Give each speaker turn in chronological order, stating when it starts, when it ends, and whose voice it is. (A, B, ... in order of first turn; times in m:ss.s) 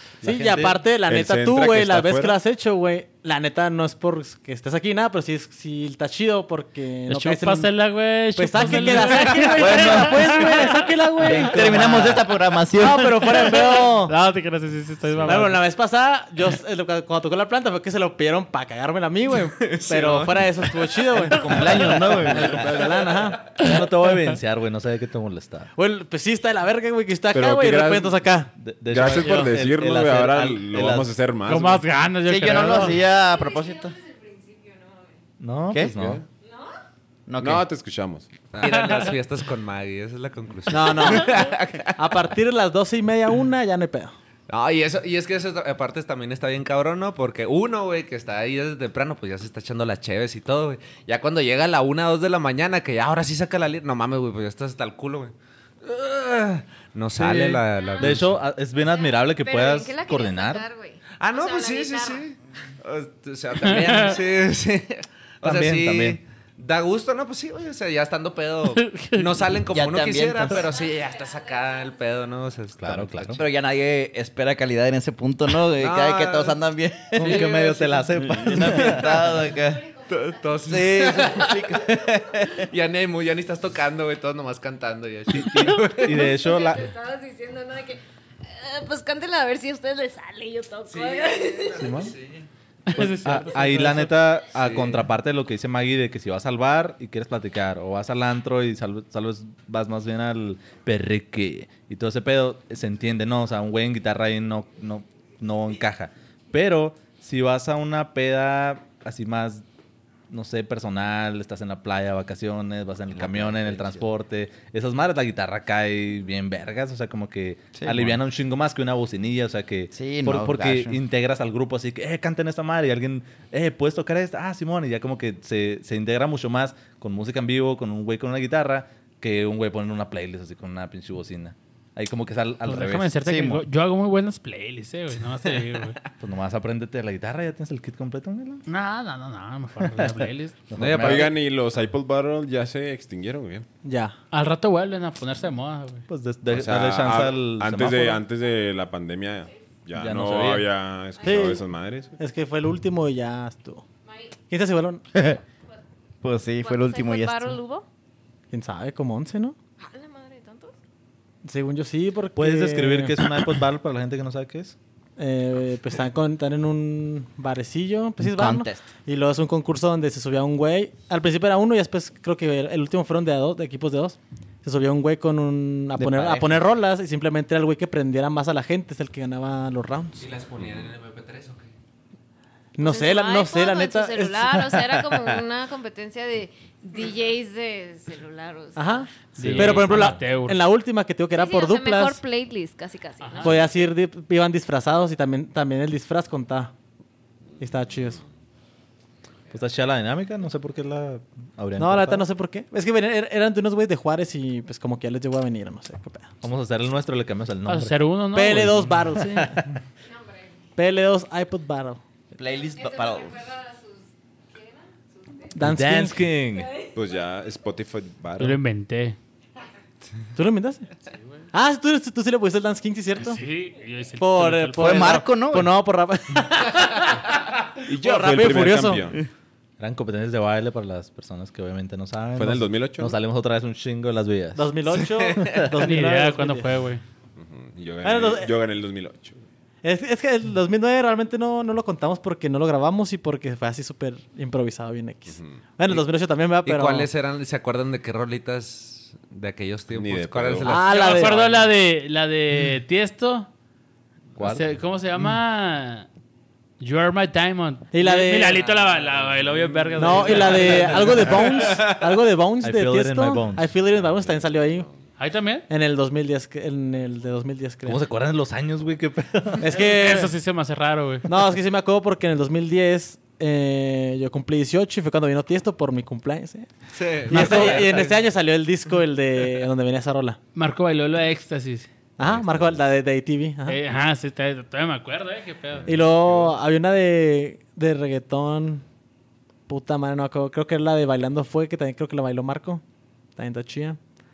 0:00.2-0:00.8 A
0:00.2-0:07.7 B
0:01.0-0:02.4 C
0:07.1-0:10.9 D
0:08.4-0:14.1 B
0:09.5-0:10.5 E
0:11.2-0:13.7 E
0:13.7-0:15.5 D
0:15.0-0:15.6 A
0:15.2-0:23.6 B
0:19.6-0:21.7 F
0:21.2-0:22.8 E
0:23.5-0:25.7 A
0:25.8-0:28.5 B
0:27.3-0:28.2 C
0:28.6-0:31.1 A
0:28.9-0:31.8 C
0:29.2-0:29.5 B
0:31.4-0:33.0 D
0:32.2-0:34.0 E
0:32.7-0:35.2 G
0:35.4-0:36.2 A
0:35.7-0:36.2 E
0:36.4-0:36.7 G
0:37.3-0:37.6 E
0:37.4-0:38.4 C
0:38.5-0:42.2 F
0:38.6-0:39.1 D
0:40.7-0:41.3 B
0:41.1-0:41.5 G
0:42.0-0:44.1 B
0:44.5-0:58.4 F
0:57.2-1:00.6 A
0:57.7-1:02.2 G
1:01.2-1:13.4 F
1:03.6-1:04.2 D
1:05.4-1:06.2 A
1:08.8-1:09.3 D
1:09.7-1:10.6 E
1:10.6-1:12.1 G
1:12.8-1:13.4 A
1:13.4-1:17.6 E
1:15.8-1:16.6 F
1:17.1-1:19.0 F
1:17.1-1:19.2 A
1:18.2-1:19.8 E
1:19.5-1:20.7 G
1:20.1-1:21.9 F
1:20.7-1:22.7 E
1:22.6-1:26.3 F
1:25.3-1:26.9 A
1:25.9-1:32.0 G
1:30.9-1:32.5 F
1:31.8-1:32.1 A
1:32.9-1:34.3 D
1:32.9-1:49.6 A
1:34.5-1:35.1 F
1:50.3-2:13.2 A
1:53.1-1:54.1 E
1:57.8-1:58.2 E
1:59.9-2:01.0 E
2:12.6-2:16.0 D
2:13.2-2:13.6 E
2:16.2-2:18.6 A
2:18.7-2:20.6 D
2:19.8-2:21.4 A
2:20.8-2:23.7 C
2:20.8-2:21.3 F
2:23.8-2:24.1 B
2:24.3-2:26.0 D
2:26.1-2:28.2 A
2:26.5-2:32.2 C
2:29.9-2:30.7 A
2:31.2-2:31.5 G
2:31.2-2:31.6 B
2:32.2-2:33.8 B
2:34.0-2:34.4 G
2:34.5-2:35.0 B
2:35.1-2:35.4 E
2:36.2-2:37.6 E
2:36.6-2:37.8 G
2:38.5-2:39.6 B
2:39.8-2:40.7 G
2:41.4-2:43.1 B
2:42.4-2:44.8 A
2:45.2-3:00.3 B
2:48.2-2:48.9 E
2:56.0-2:56.5 E
3:00.2-3:01.7 F
3:02.8-3:04.8 B
3:02.8-3:09.0 G
3:08.8-3:12.2 B
3:09.3-3:10.6 D
3:09.4-3:10.2 A
3:11.3-3:13.9 G
3:13.2-3:13.7 D
3:13.4-3:16.7 B
3:17.6-3:18.2 B
3:19.5-3:22.2 A
3:21.8-3:26.3 B
3:26.4-3:28.0 A
3:27.6-3:28.8 D
3:28.3-3:29.6 B
3:28.5-3:29.6 A
3:30.1-3:30.5 G
3:30.8-3:32.0 B
3:32.3-3:33.5 E
3:32.6-3:35.6 G
3:35.6-3:36.2 B
3:35.6-3:36.8 A
3:36.9-3:38.6 C
3:38.4-3:39.2 D
3:40.3-3:40.9 B
3:41.5-3:43.4 B
3:43.2-3:45.2 D
3:44.2-3:47.2 B
3:44.8-3:45.7 E
3:47.8-3:49.2 C
3:47.9-3:49.0 B
3:49.8-3:54.7 A
3:52.4-3:53.2 C
3:54.5-3:56.7 B
3:55.0-3:55.6 F
3:55.4-3:55.7 A
3:55.8-3:57.0 D
3:57.4-3:59.4 C
3:58.0-3:58.5 B
3:59.8-4:07.1 B
4:05.3-4:05.6 C
4:06.6-4:11.7 F
4:09.9-4:10.7 C
4:10.6-4:11.4 B
4:10.9-4:13.5 D
4:14.4-4:14.7 A
4:14.4-4:16.1 D
4:16.8-4:21.1 D
4:17.9-4:18.8 B
4:20.0-4:24.9 B
4:20.5-4:21.5 A
4:22.6-4:23.7 A
4:25.2-4:25.6 D
4:25.7-4:28.0 B
4:27.8-4:29.7 A
4:29.6-4:30.3 B
4:29.7-4:31.2 D
4:31.3-4:36.7 B
4:36.9-4:38.2 F
4:37.2-4:40.4 B
4:40.5-4:41.9 D
4:42.2-4:43.8 B
4:42.2-4:42.6 C
4:43.6-4:45.9 D
4:45.8-4:48.8 B
4:46.0-4:46.5 C
4:49.7-4:52.8 B
4:53.4-4:54.0 B